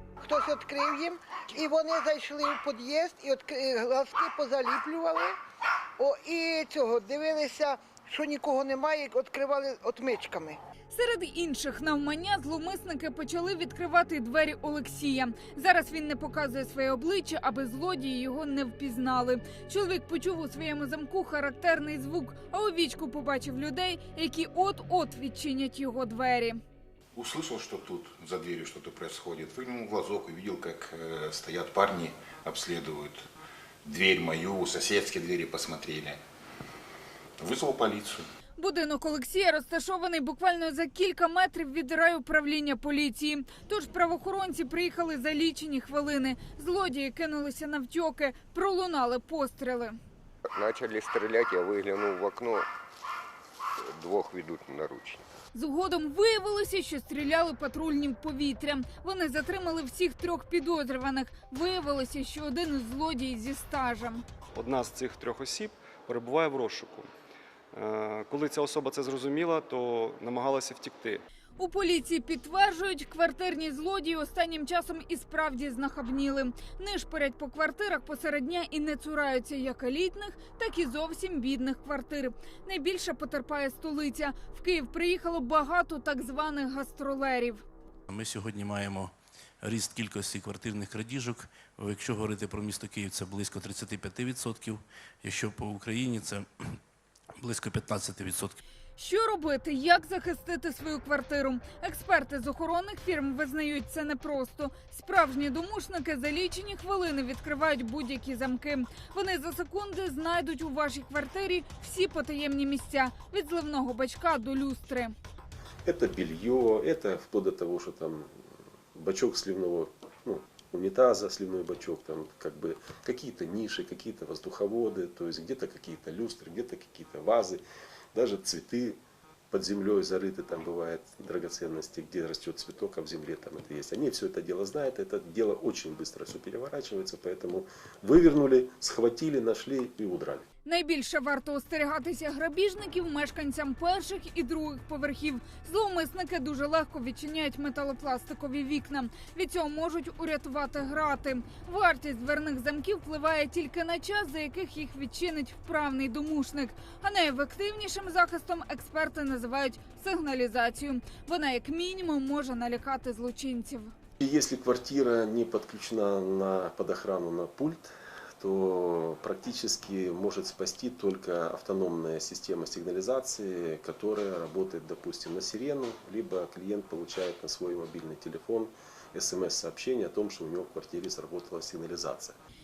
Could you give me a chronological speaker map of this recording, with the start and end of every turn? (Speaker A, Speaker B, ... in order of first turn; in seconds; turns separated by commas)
Speaker A: 0.2-5.3, Speaker A: 6.0-10.6, Speaker B: 10.9-26.6, Speaker C: 27.1-33.2, Speaker C: 33.8-36.2, Speaker C: 37.4-38.2, Speaker B: 38.6-50.0, Speaker D: 50.5-52.6, Speaker D: 53.8-55.2, Speaker B: 55.5-64.2, Speaker E: 64.5-67.1, Speaker E: 67.7-71.2, Speaker B: 71.6-87.6, Speaker F: 88.1-96.5, Speaker F: 97.4-98.6, Speaker B: 99.0-115.1, Speaker G: 115.8-127.6, Speaker G: 128.1-129.0, Speaker G: 129.5-140.4, Speaker B: 140.6-163.9, Speaker G: 164.2-182.3